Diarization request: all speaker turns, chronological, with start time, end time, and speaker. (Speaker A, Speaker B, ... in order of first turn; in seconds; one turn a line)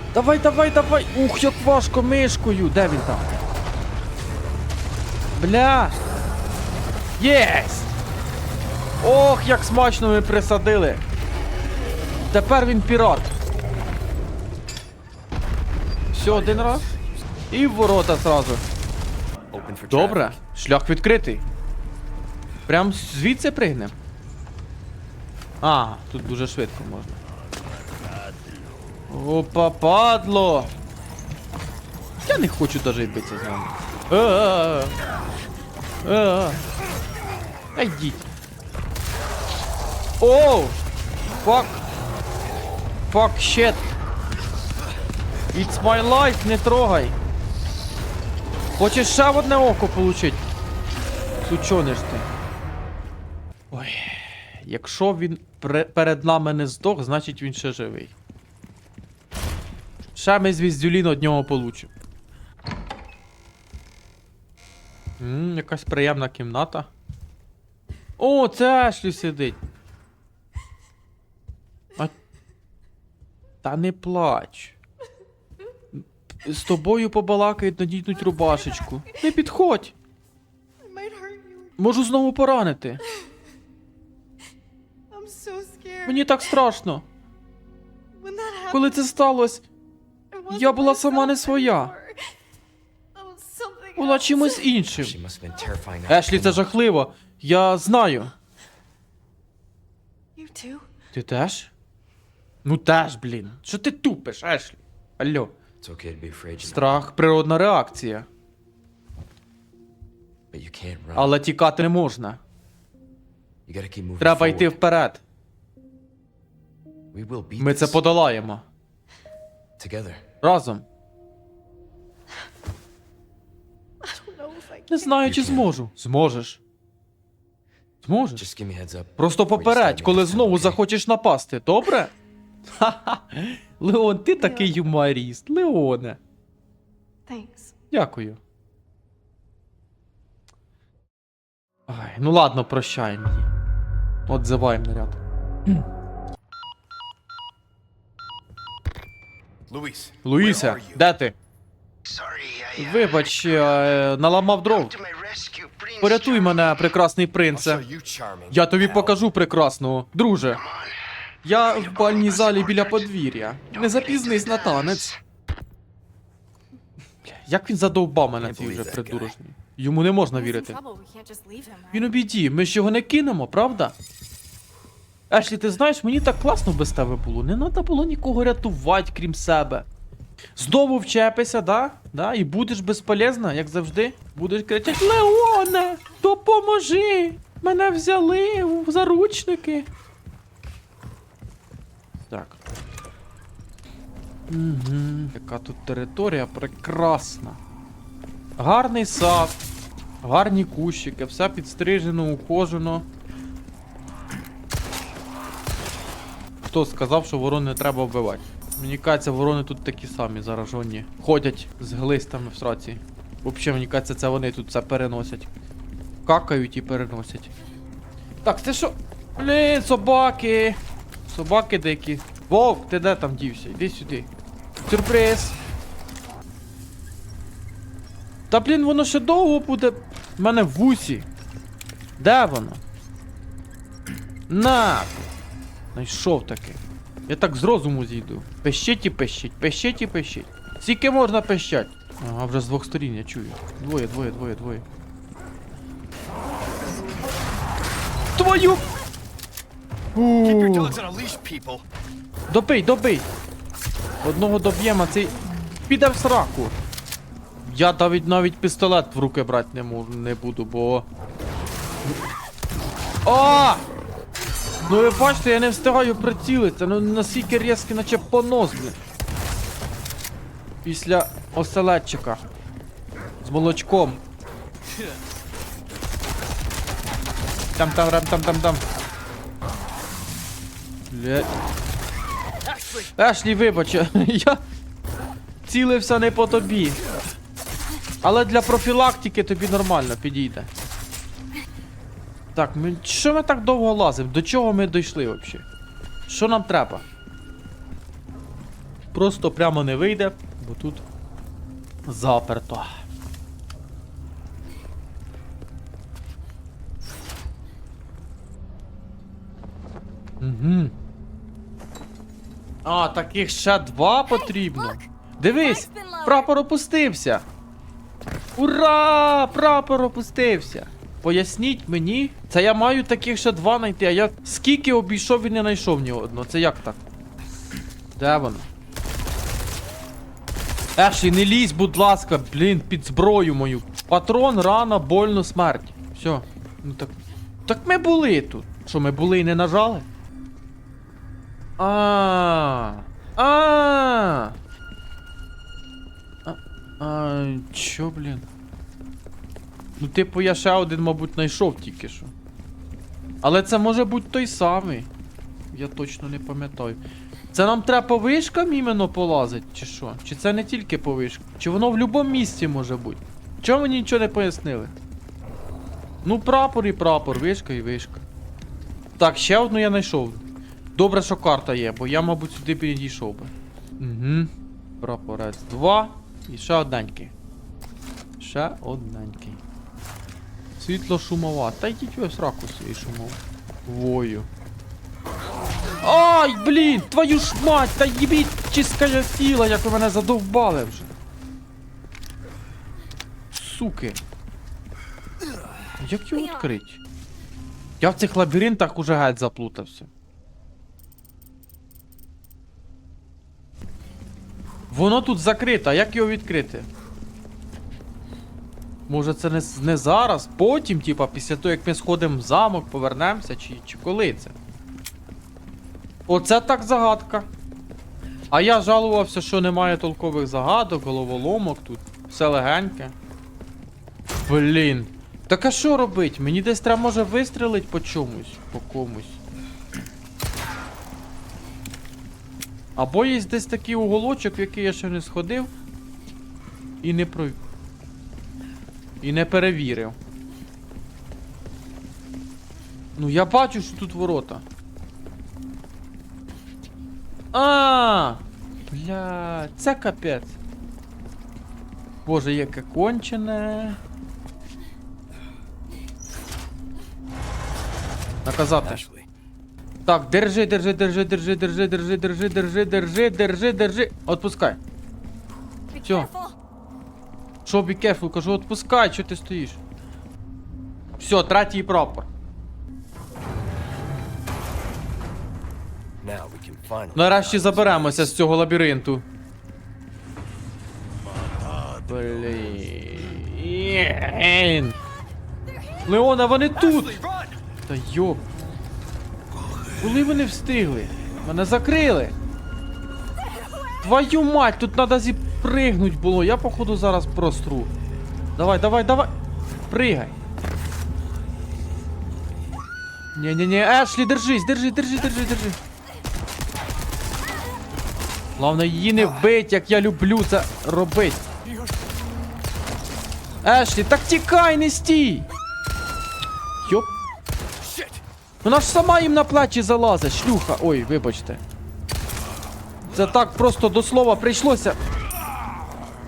Speaker A: 0.1-3.4
Speaker A: 5.4-6.0
Speaker A: 7.2-8.0
Speaker A: 9.0-11.0
Speaker A: 12.3-13.3
Speaker A: 16.1-16.9
Speaker B: 16.2-17.4
Speaker A: 17.5-18.6
Speaker B: 19.5-20.4
Speaker A: 19.9-21.4
Speaker A: 22.7-24.0
Speaker A: 25.6-27.2
Speaker A: 29.1-30.7
Speaker A: 32.2-35.0
Speaker A: 36.0-36.6
Speaker A: 37.8-38.3
Speaker A: 40.2-40.8
Speaker A: 41.4-41.8
Speaker A: 43.1-43.8
Speaker A: 45.5-47.2
Speaker A: 48.8-50.5
Speaker A: 51.4-52.3
Speaker A: 53.7-58.1
Speaker A: 60.2-61.9
Speaker A: 65.2-66.9
Speaker A: 68.2-69.6
Speaker A: 73.6-74.8
Speaker A: 75.9-80.0
Speaker C: 78.3-79.2
Speaker C: 80.8-81.8
Speaker A: 81.8-83.0
Speaker C: 85.1-86.5
Speaker A: 86.1-87.1
Speaker C: 88.2-89.0
Speaker A: 88.7-89.6
Speaker C: 90.3-92.3
Speaker A: 90.5-91.9
Speaker C: 93.2-94.7
Speaker A: 94.0-95.2
Speaker B: 94.9-96.7
Speaker A: 96.1-98.3
Speaker C: 100.4-100.9
Speaker A: 101.1-101.7
Speaker A: 102.7-105.5
Speaker B: 105.8-107.0
Speaker A: 106.6-108.3
Speaker B: 110.5-111.4
Speaker A: 111.2-112.4
Speaker B: 113.7-114.8
Speaker A: 114.2-115.2
Speaker B: 117.1-118.0
Speaker A: 117.6-118.6
Speaker B: 119.8-120.2
Speaker A: 120.4-120.8
Speaker C: 124.0-125.2
Speaker A: 124.9-126.6
Speaker B: 125.2-125.7
Speaker A: 128.0-128.5
Speaker B: 128.4-130.8
Speaker A: 129.2-132.1
Speaker A: 132.7-136.2
Speaker C: 134.4-134.8
Speaker C: 137.3-137.7
Speaker A: 137.9-138.4
Speaker A: 141.9-143.5
Speaker A: 144.3-145.8
Speaker B: 149.7-151.1
Speaker A: 150.2-151.3
Speaker B: 152.1-153.0
Speaker A: 152.8-155.0
Speaker B: 154.9-156.7
Speaker A: 156.0-157.8
Speaker B: 157.5-159.2
Speaker A: 158.5-160.6
Speaker A: 161.4-165.2
Speaker A: 167.3-170.8
Speaker B: 168.4-169.3
Speaker C: 170.3-172.1
Speaker A: 171.9-174.0
Speaker A: 175.3-179.9
Speaker A: 180.6-189.9
Speaker A: 192.3-192.6
Speaker A: 194.5-197.6
Speaker A: 198.6-199.6
Speaker A: 200.2-203.1
Speaker A: 206.7-215.5
Speaker A: 216.3-217.5
Speaker A: 218.4-224.3
Speaker A: 224.9-225.6
Speaker A: 228.5-231.3
Speaker A: 232.2-232.8
Speaker A: 234.5-235.2
Speaker A: 235.9-244.8
Speaker A: 248.4-248.8
Speaker A: 250.2-251.0
Speaker B: 250.4-251.8
Speaker A: 252.5-253.3
Speaker A: 254.2-255.3
Speaker A: 255.9-256.8
Speaker A: 257.6-261.1
Speaker A: 263.2-263.9
Speaker A: 264.9-269.0
Speaker A: 270.9-272.4
Speaker A: 273.4-274.2
Speaker A: 277.8-278.8
Speaker A: 281.1-281.5
Speaker A: 282.9-284.6
Speaker A: 285.7-287.0
Speaker A: 288.2-290.7
Speaker A: 292.6-295.6
Speaker A: 296.3-297.1
Speaker A: 299.1-301.0
Speaker A: 302.1-302.9
Speaker A: 310.4-310.9
Speaker A: 312.9-317.5
Speaker A: 318.6-327.0
Speaker A: 328.2-328.7
Speaker A: 331.0-337.1
Speaker A: 337.7-340.1
Speaker A: 341.8-344.6
Speaker A: 346.4-348.5
Speaker A: 350.0-352.3
Speaker A: 353.4-355.1
Speaker A: 355.7-357.0
Speaker A: 357.5-364.9
Speaker A: 366.2-368.2
Speaker A: 369.2-370.4
Speaker A: 371.0-374.5
Speaker A: 375.0-377.3
Speaker A: 378.4-379.6
Speaker A: 380.8-384.5
Speaker A: 386.0-391.1
Speaker A: 393.5-394.2
Speaker A: 396.0-397.0
Speaker A: 398.0-400.1
Speaker A: 404.9-406.9
Speaker A: 409.1-414.5
Speaker A: 416.3-417.5
Speaker A: 418.5-423.1
Speaker A: 424.5-429.4
Speaker A: 433.0-435.7
Speaker A: 437.0-437.6
Speaker A: 439.2-440.2
Speaker A: 443.2-444.6
Speaker A: 447.5-450.6
Speaker A: 452.3-454.0
Speaker A: 458.4-459.1
Speaker B: 458.8-459.3
Speaker A: 460.1-464.8
Speaker A: 466.0-466.4
Speaker A: 467.6-469.8
Speaker A: 471.2-472.3
Speaker B: 476.2-478.4
Speaker A: 477.1-479.2
Speaker B: 481.6-482.1
Speaker A: 482.1-485.0
Speaker A: 486.1-487.2
Speaker B: 486.8-487.6
Speaker A: 487.9-488.4
Speaker A: 490.0-492.4
Speaker A: 494.0-497.9
Speaker A: 498.6-499.3
Speaker A: 499.9-500.4
Speaker A: 503.4-505.8
Speaker A: 508.6-511.4
Speaker A: 513.6-515.5
Speaker A: 516.9-517.1
Speaker B: 517.8-518.2
Speaker A: 518.6-521.6
Speaker A: 523.0-525.0